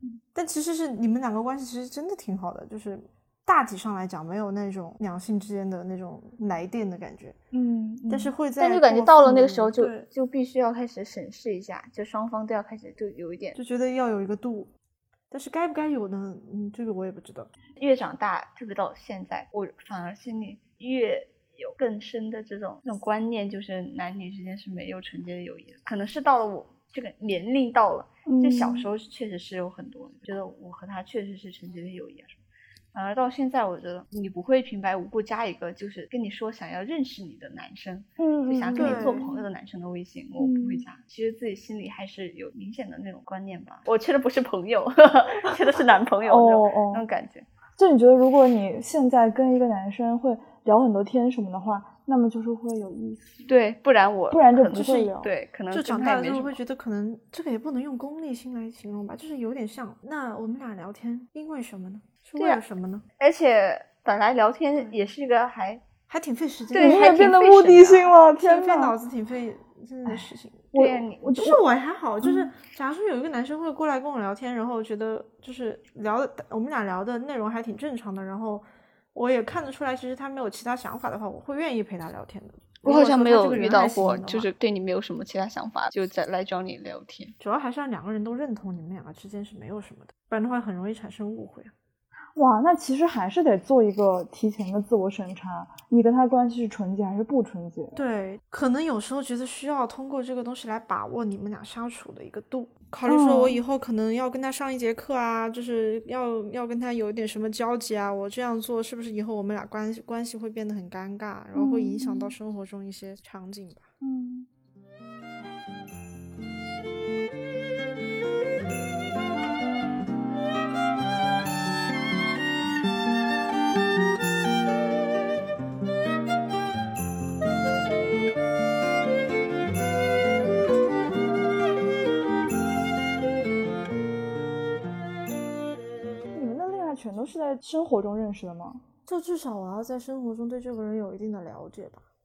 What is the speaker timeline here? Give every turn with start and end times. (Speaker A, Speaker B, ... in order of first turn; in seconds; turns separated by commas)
Speaker A: 0.3-7.3, Speaker B: 7.5-8.3, Speaker A: 8.1-10.1, Speaker C: 8.6-13.6, Speaker A: 13.5-14.7, Speaker A: 15.3-17.5, Speaker C: 17.8-32.4, Speaker B: 28.2-28.9, Speaker C: 32.9-47.4, Speaker B: 38.2-39.3, Speaker A: 38.7-39.3, Speaker B: 40.4-40.8, Speaker B: 46.2-47.0, Speaker B: 47.8-53.4, Speaker C: 53.5-56.6, Speaker B: 54.3-55.3, Speaker A: 55.7-63.0, Speaker C: 63.2-65.8, Speaker A: 66.1-67.2, Speaker C: 66.7-68.1, Speaker B: 66.8-69.0, Speaker A: 68.4-70.7, Speaker B: 70.0-71.6, Speaker C: 70.7-71.4, Speaker A: 71.3-84.5, Speaker B: 72.2-72.5, Speaker C: 82.8-87.3, Speaker A: 87.4-91.7, Speaker B: 92.3-98.0, Speaker A: 97.9-113.9, Speaker B: 103.0-103.6, Speaker B: 111.5-112.3, Speaker B: 114.0-114.5, Speaker B: 136.3-138.8, Speaker A: 139.1-142.0